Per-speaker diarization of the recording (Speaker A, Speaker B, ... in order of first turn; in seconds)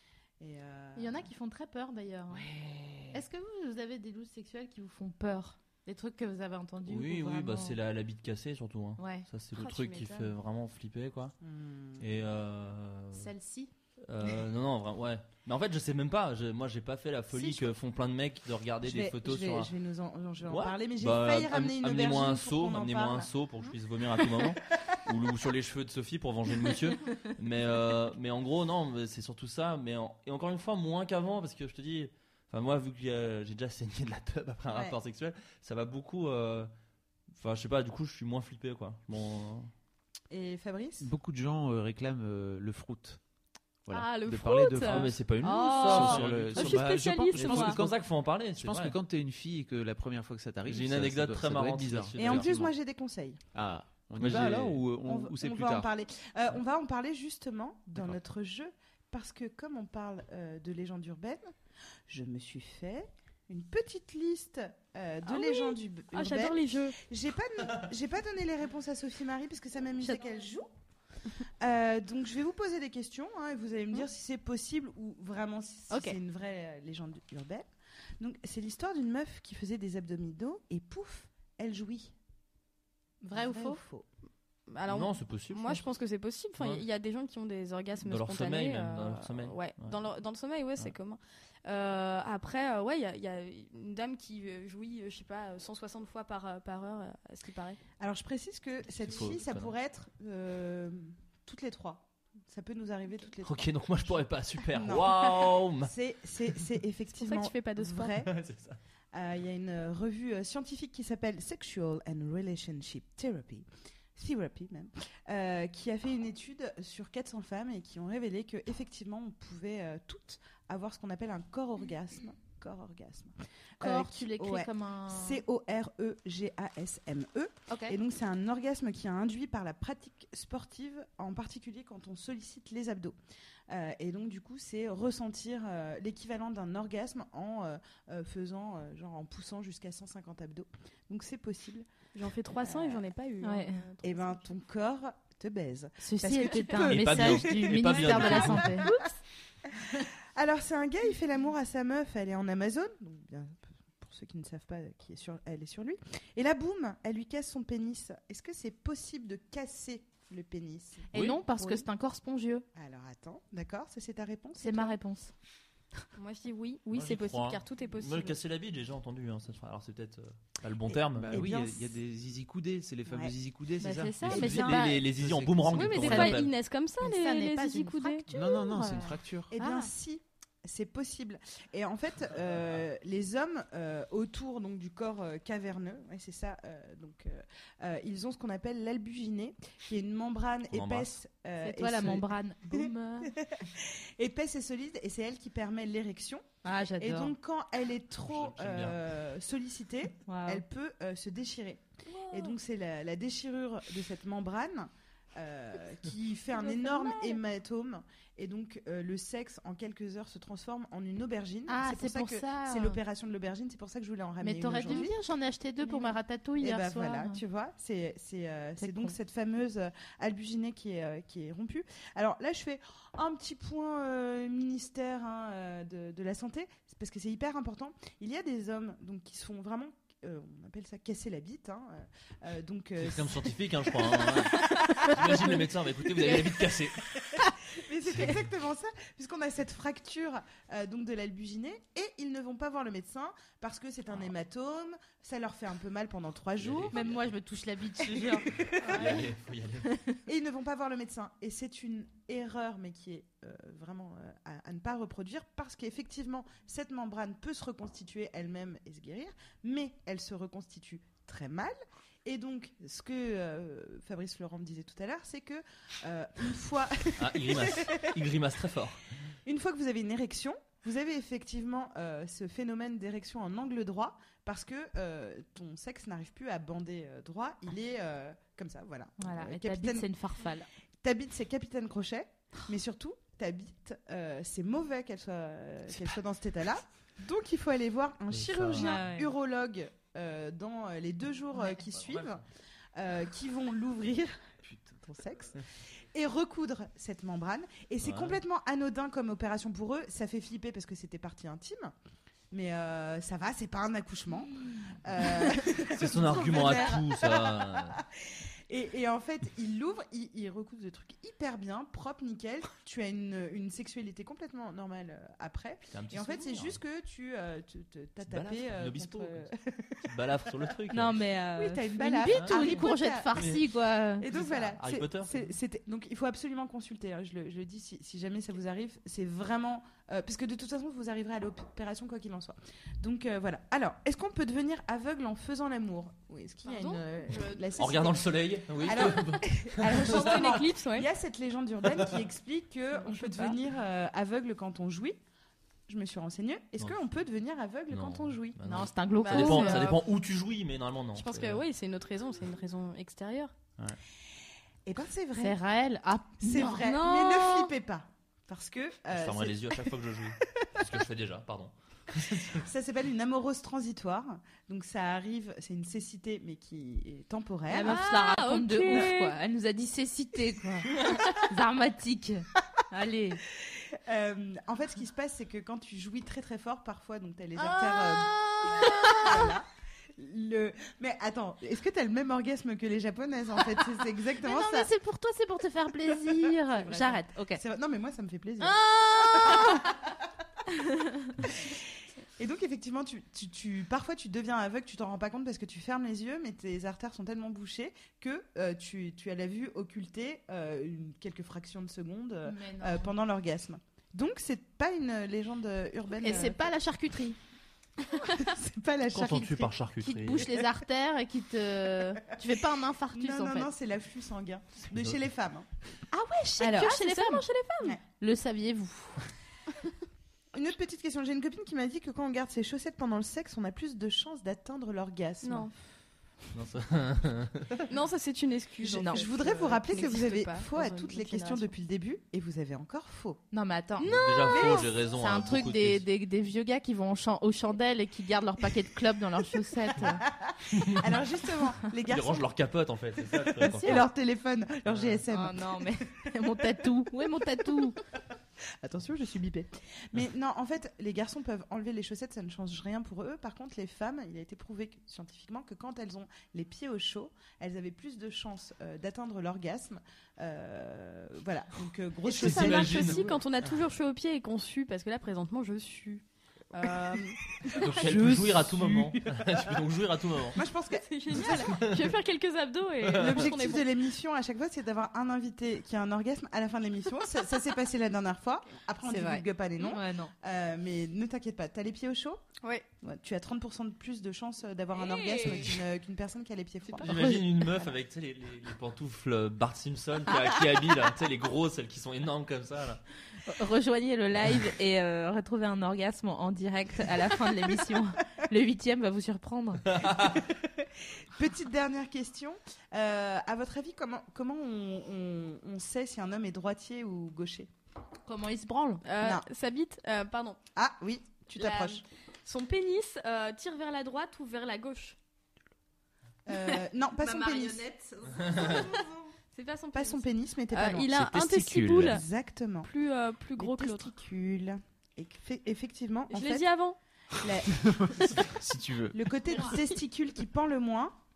Speaker A: 0.4-1.3, 2.5-3.2, 11.4-12.1, 17.3-17.7, 18.8-23.3, 34.7-35.0, 40.3-41.1, 52.2-53.4, 55.0-61.5, 62.1-70.7, 71.6-77.7, 78.2-82.1, 83.3-84.1, 98.0-108.3, 109.1-133.2, 133.7-141.9, 142.6-143.1, 144.0-149.0, 149.8-161.8, 162.7-164.9, 170.9-171.6, 173.1-173.3, 179.5-192.3, 192.8-196.4, 197.0-215.1, 215.8-235.6, 236.2-247.0, 248.0-249.2, 250.2-268.1, 269.4-280.1, 281.0-292.4, 292.9-295.6, 296.1-301.9, 302.5-320.1, 321.6-323.5, 324.2-345.2, 345.9-348.6, 354.9-355.6, 356.4-359.9, 362.3-368.0, 373.5-384.9, 386.3-388.8, 389.4-390.1, 391.4-406.6, 408.3-409.7, 410.4-410.6, 413.1-415.6, 420.5-425.7, 428.9-433.4, 440.2-442.5, 443.2-445.7, 448.8-463.4, 467.8-469.1, 470.5-471.9, 473.1-482.4, 483.0-487.9, 500.3-507.7, 509.2-509.4, 510.7-512.0, 516.5-517.9, 518.5-519.1, 519.9-521.2, 521.9-522.9, 523.6-526.7, 527.4-528.5, 529.1-531.2
Speaker B: 0.9-2.5, 3.1-7.8, 9.0-9.3, 13.1-13.7, 75.9-76.2, 83.2-83.8, 123.8-125.4, 127.7-128.0, 143.4-143.8, 146.0-148.9, 161.1-162.7, 164.6-165.3, 171.3-171.7, 173.8-175.0, 176.0-176.4, 177.0-179.9, 191.6-193.3, 196.6-197.3, 200.2-200.6, 206.7-207.2, 211.7-213.0, 214.4-217.4, 218.8-219.1, 246.9-249.2, 249.8-250.2, 279.2-280.7, 288.7-289.3, 320.9-324.3, 348.6-349.9, 355.4-356.9, 367.7-373.4, 377.6-379.6, 384.4-387.6, 388.6-389.9, 402.4-403.1, 406.2-407.4, 410.0-413.7, 416.1-417.4, 418.1-419.2, 428.9-429.2, 433.5-440.2, 443.7-444.0, 445.3-448.0, 479.0-480.3, 487.0-487.4, 493.4-499.9, 508.2-509.0, 517.2-518.9
Speaker C: 6.9-11.3, 12.0-13.3, 14.1-19.7, 20.4-36.7, 37.4-39.7, 44.8-49.0, 50.7-52.6, 54.2-54.9, 84.9-85.8, 86.6-86.8, 88.0-90.0, 98.9-99.7, 103.4-105.9, 108.2-108.8, 146.8-148.8, 166.9-171.3, 174.2-176.5, 190.7-191.2, 198.2-199.0, 233.0-237.1, 238.1-238.4, 246.6-247.3, 248.6-249.9, 267.2-269.1, 288.3-289.0, 291.7-292.4, 298.0-298.4, 305.9-308.0, 315.9-316.8, 318.3-319.5, 320.1-321.2, 322.3-323.6, 324.2-325.5, 337.8-340.7, 347.9-351.6, 359.1-362.7, 409.1-410.5, 426.5-427.9, 434.1-436.1, 440.7-441.2, 441.9-444.1, 444.9-445.2, 462.3-463.3, 467.8-470.6, 471.6-472.1, 473.0-473.5, 485.4-485.7, 487.0-493.0, 499.9-500.4
Speaker D: 9.6-10.3, 43.9-47.8, 65.2-67.0, 84.7-97.8, 107.2-108.2, 142.1-144.5, 148.2-149.1, 166.2-168.4, 175.7-178.3, 202.1-202.6, 206.8-207.3, 248.8-249.2, 336.6-337.9, 340.0-341.1, 343.0-343.6, 349.2-350.0, 351.1-353.6, 356.6-357.7, 367.8-369.4, 378.7-379.2, 388.9-389.8, 416.4-418.0, 425.4-425.7, 427.9-431.7, 434.0-434.8, 462.2-468.2, 470.9-473.9, 482.6-482.9, 484.9-485.8, 509.0-510.6, 511.6-515.1, 519.5-522.2, 522.8-524.1, 526.3-527.0
Speaker E: 41.0-43.2, 43.9-52.7, 53.5-55.9, 171.1-176.1, 178.3-179.5, 468.1-469.1, 521.1-522.2, 527.7-529.2